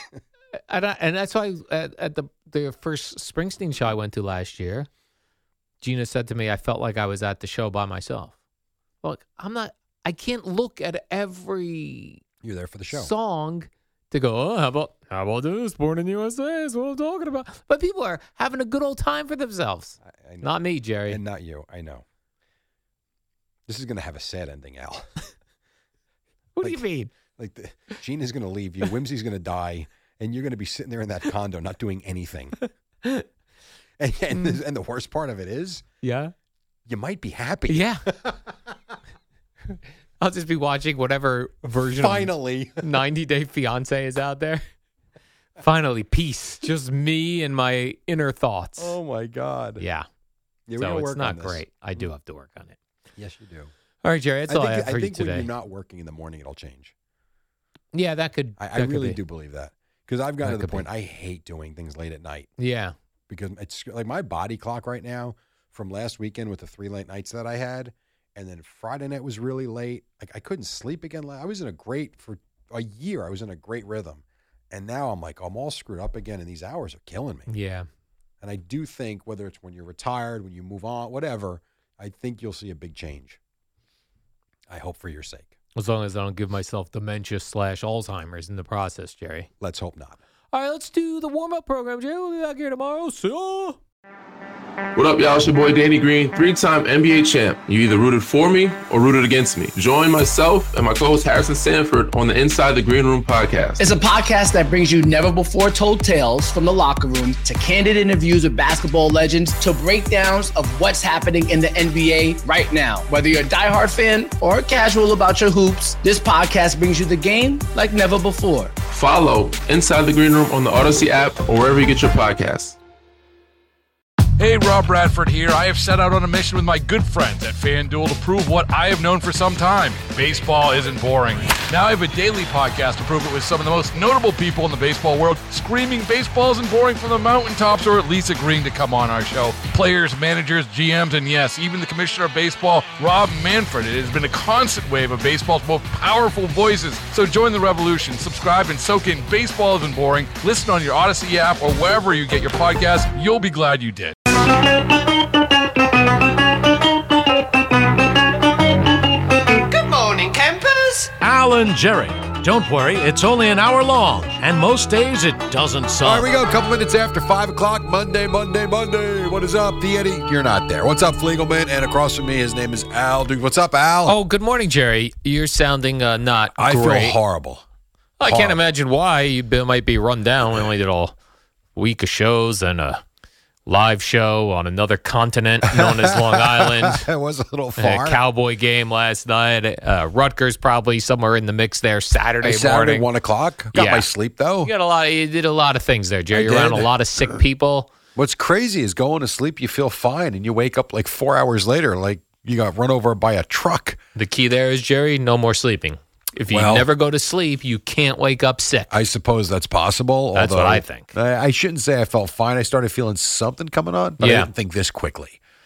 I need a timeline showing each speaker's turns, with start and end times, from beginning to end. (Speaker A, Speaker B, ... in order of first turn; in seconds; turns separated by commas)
Speaker A: 0.7-4.9, Speaker A: 5.8-8.3, Speaker A: 9.0-12.2, Speaker B: 12.4-13.1, Speaker A: 12.9-21.2, Speaker B: 20.0-20.5, Speaker B: 21.1-22.0, Speaker B: 23.7-25.1, Speaker A: 26.6-27.1, Speaker B: 27.3-32.5, Speaker A: 32.6-33.2, Speaker B: 34.0-35.8, Speaker A: 34.3-34.6, Speaker A: 36.0-36.3, Speaker B: 36.9-38.5, Speaker A: 37.7-38.0, Speaker A: 39.7-44.6, Speaker B: 42.0-42.8, Speaker A: 45.6-49.0, Speaker B: 48.8-49.8, Speaker A: 49.8-50.1, Speaker B: 50.7-52.1, Speaker A: 50.8-52.8, Speaker B: 53.2-53.7, Speaker A: 54.0-55.5, Speaker B: 54.5-56.9, Speaker A: 57.9-59.2, Speaker B: 58.6-62.5, Speaker A: 60.4-60.9, Speaker A: 62.6-62.9, Speaker B: 63.3-77.5, Speaker A: 77.5-77.9, Speaker B: 78.4-83.4, Speaker B: 84.7-85.5, Speaker A: 85.8-89.5, Speaker B: 89.6-90.2, Speaker A: 90.5-93.8, Speaker C: 95.0-103.9, Speaker D: 103.8-118.7, Speaker C: 118.9-122.8, Speaker E: 124.4-154.2, Speaker F: 159.6-166.3, Speaker B: 166.0-174.2, Speaker A: 174.1-177.2, Speaker B: 176.6-177.6, Speaker A: 178.2-181.1, Speaker B: 178.2-178.6, Speaker A: 181.8-183.0, Speaker A: 183.7-187.0, Speaker B: 185.7-188.2, Speaker A: 187.8-193.1, Speaker B: 192.4-194.7, Speaker A: 193.7-194.1, Speaker A: 194.6-197.9, Speaker B: 196.3-197.4, Speaker B: 198.2-204.0, Speaker A: 204.2-208.9, Speaker B: 206.5-206.9, Speaker B: 208.9-215.4, Speaker A: 210.3-211.1, Speaker A: 214.2-214.5